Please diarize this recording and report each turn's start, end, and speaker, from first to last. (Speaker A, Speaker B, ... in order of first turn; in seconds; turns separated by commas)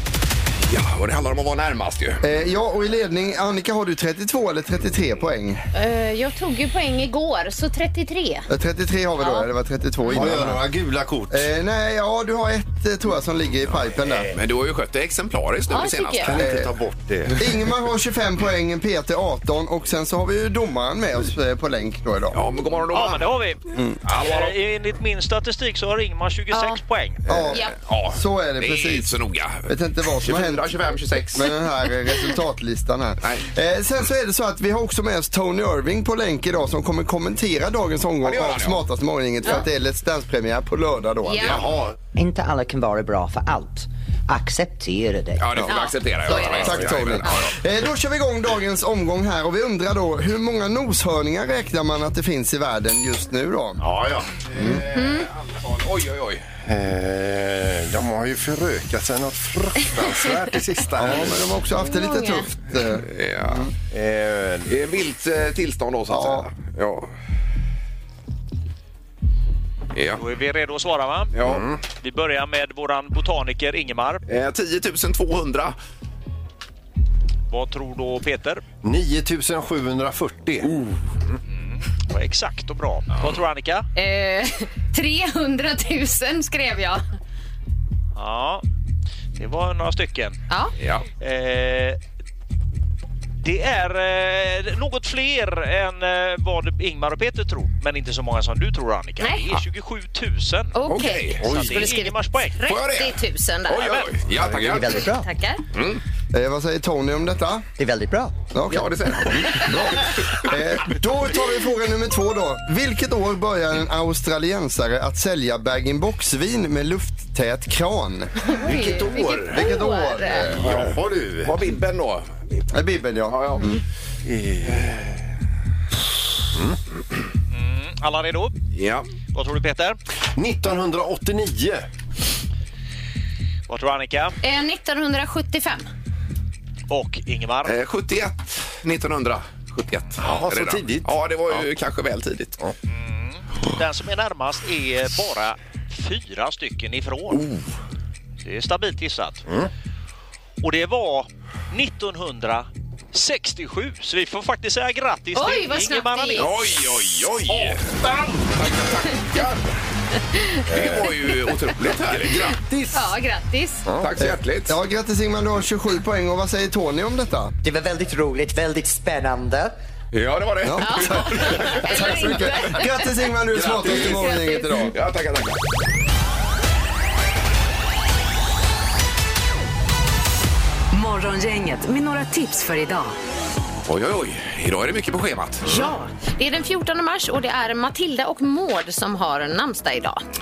Speaker A: 0.6-2.2, Speaker B: 2.2-5.6, Speaker C: 5.7-8.5, Speaker B: 8.5-10.6, Speaker C: 9.2-9.5, Speaker D: 10.1-11.5, Speaker B: 11.3-14.3, Speaker D: 14.0-14.3, Speaker A: 14.3-16.4, Speaker C: 15.7-16.3, Speaker D: 16.2-17.5, Speaker B: 16.4-16.7, Speaker B: 17.4-22.4, Speaker A: 22.3-23.3, Speaker E: 22.9-27.3, Speaker B: 23.7-24.0, Speaker A: 24.0-24.5, Speaker C: 26.5-26.8, Speaker B: 27.3-29.1, Speaker A: 27.3-31.6, Speaker B: 29.7-41.6, Speaker A: 38.2-38.8, Speaker C: 41.2-41.6, Speaker D: 41.4-42.0, Speaker F: 42.1-45.5, Speaker A: 45.4-47.5, Speaker C: 45.7-47.4, Speaker B: 46.2-53.8, Speaker D: 46.7-47.0, Speaker D: 53.8-54.3, Speaker A: 54.5-56.5, Speaker B: 54.6-54.8, Speaker C: 54.9-55.3, Speaker D: 56.6-61.5, Speaker B: 61.0-63.7, Speaker C: 61.8-62.5, Speaker A: 63.0-63.7, Speaker D: 63.9-64.8, Speaker A: 64.7-67.1, Speaker B: 66.1-66.5, Speaker A: 69.9-70.2, Speaker E: 70.1-71.3, Speaker A: 71.3-71.7, Speaker D: 71.4-71.8, Speaker E: 72.0-74.2, Speaker A: 74.3-75.8, Speaker E: 77.5-78.6, Speaker D: 78.8-80.7, Speaker E: 81.5-83.8, Speaker C: 83.9-87.0, Speaker E: 88.2-88.6, Speaker E: 89.3-90.4, Speaker A: 90.8-91.0, Speaker E: 91.2-92.0, Speaker E: 93.4-100.8, Speaker C: 99.2-99.4, Speaker C: 100.7-104.1, Speaker A: 100.9-101.7, Speaker E: 101.3-102.6, Speaker A: 102.7-105.1, Speaker F: 104.4-105.3, Speaker C: 105.0-105.6, Speaker A: 105.7-106.0, Speaker B: 106.3-107.7, Speaker F: 107.8-108.4, Speaker B: 108.5-118.5, Speaker A: 108.7-110.5, Speaker C: 118.4-120.5, Speaker D: 118.6-119.7, Speaker B: 119.5-120.7, Speaker D: 120.3-121.6, Speaker A: 120.5-122.7, Speaker B: 122.7-123.8, Speaker A: 123.3-123.7, Speaker D: 124.2-124.8, Speaker A: 124.6-125.1, Speaker D: 126.5-126.8, Speaker E: 127.5-128.6, Speaker A: 128.7-129.1, Speaker E: 129.3-130.0, Speaker D: 130.3-131.9, Speaker E: 133.7-134.3, Speaker C: 134.4-135.9, Speaker E: 136.9-137.8, Speaker A: 137.6-142.6, Speaker D: 140.2-141.1, Speaker E: 142.9-147.5, Speaker E: 148.4-149.4, Speaker E: 150.6-156.7, Speaker C: 155.3-156.5, Speaker A: 156.4-159.8, Speaker D: 158.0-158.4, Speaker C: 160.3-161.1, Speaker A: 160.7-162.6, Speaker D: 160.7-161.1, Speaker D: 162.0-163.1, Speaker C: 162.9-163.8, Speaker D: 163.8-164.1, Speaker A: 164.0-164.8, Speaker B: 164.2-167.5, Speaker F: 167.6-169.7, Speaker A: 170.1-171.9, Speaker B: 170.6-174.9, Speaker C: 170.8-173.1, Speaker D: 173.5-174.1, Speaker A: 173.8-174.1, Speaker C: 173.8-174.9, Speaker A: 174.9-175.6, Speaker G: 180.9-183.1, Speaker A: 183.8-185.7, Speaker C: 185.6-190.2